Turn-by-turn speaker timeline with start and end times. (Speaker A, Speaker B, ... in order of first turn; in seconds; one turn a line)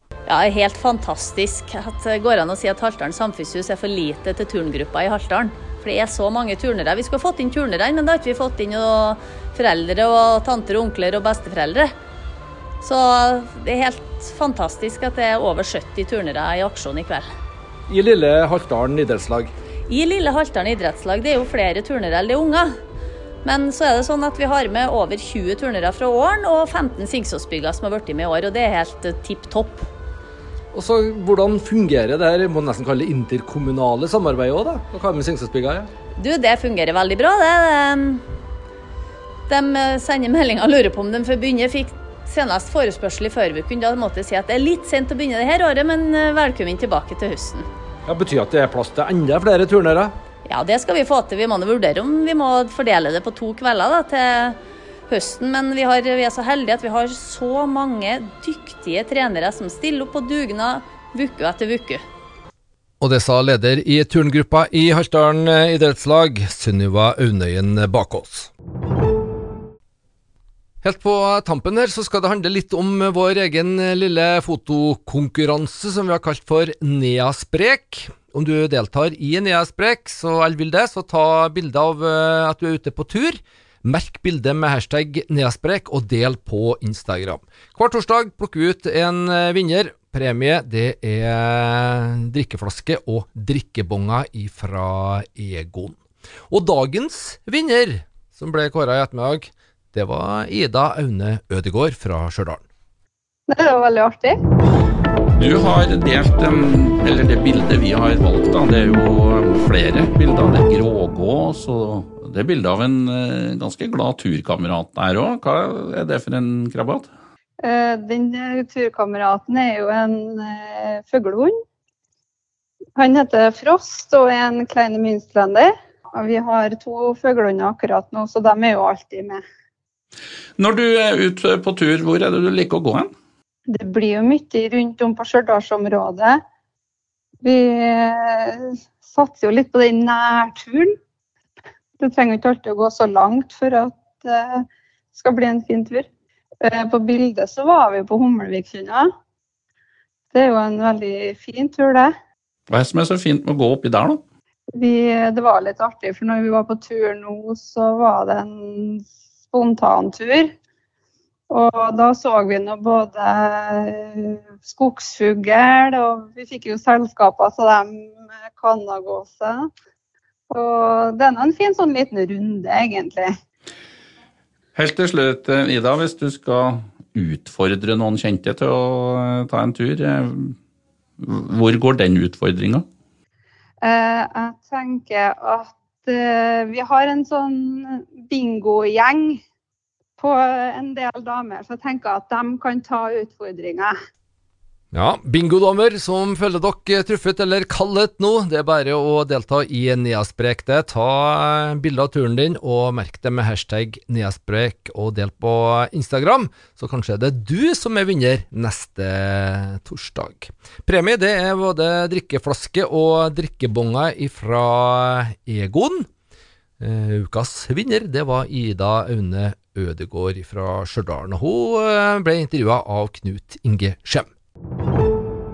Speaker A: 0.3-11.9
Speaker A: 12.8-17.2
Speaker B: 17.9-19.5
Speaker A: 19.9-22.7
Speaker A: 23.4-29.9
Speaker B: 30.7-35.9
Speaker A: 36.2-38.2
Speaker A: 39.5-47.6
Speaker B: 48.1-50.1
Speaker A: 50.4-54.5
Speaker A: 55.1-62.0
Speaker B: 63.0-68.5
Speaker B: 70.8-96.0
Speaker B: 96.5-102.6
Speaker C: 103.5-104.4
Speaker D: 105.4-117.1
Speaker C: 117.6-121.6
Speaker C: 123.0-129.4
Speaker D: 130.6-133.1
Speaker C: 133.7-136.4
Speaker C: 137.4-140.9
Speaker C: 142.0-144.6
Speaker C: 145.1-146.1
Speaker C: 146.6-149.1
Speaker C: 150.3-152.1
Speaker D: 152.7-154.2
Speaker C: 154.8-160.5
Speaker C: 161.5-169.7
Speaker C: 170.5-173.3
Speaker D: 174.8-180.5
Speaker D: 181.2-182.8
Speaker C: 183.8-189.4
Speaker C: 190.2-193.9
Speaker B: 194.9-216.1
Speaker B: 216.8-224.3